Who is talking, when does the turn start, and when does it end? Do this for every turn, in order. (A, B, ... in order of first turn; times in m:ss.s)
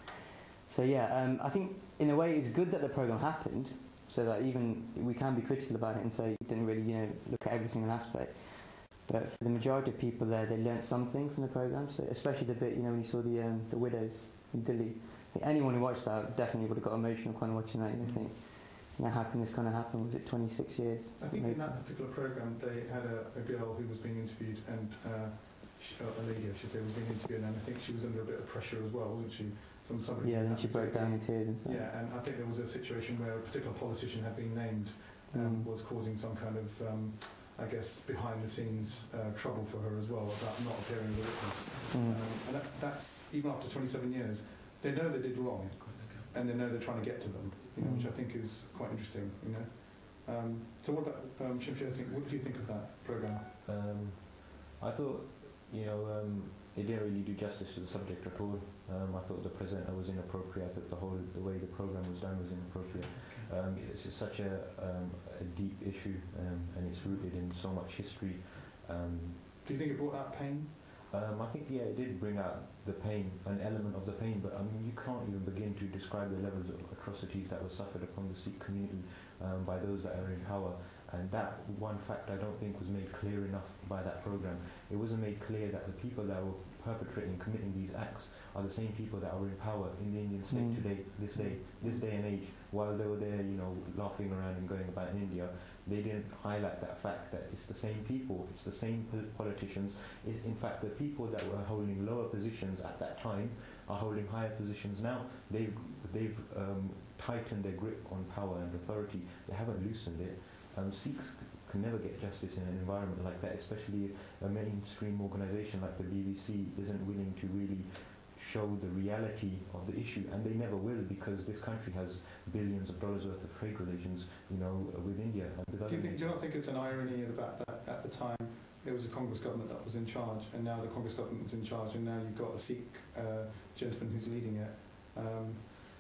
0:00.7-0:21.8 A
0:18.0-0:18.3 B
0:21.2-0:53.5 B
0:30.2-0:31.8 A
0:35.3-0:35.7 A
0:41.9-0:42.2 A
0:47.8-0:48.2 A
0:53.6-1:09.7 C
1:09.6-1:10.8 B
1:11.1-2:06.5 C
1:30.5-1:31.3 A
1:31.3-1:32.1 B
2:05.8-2:15.8 B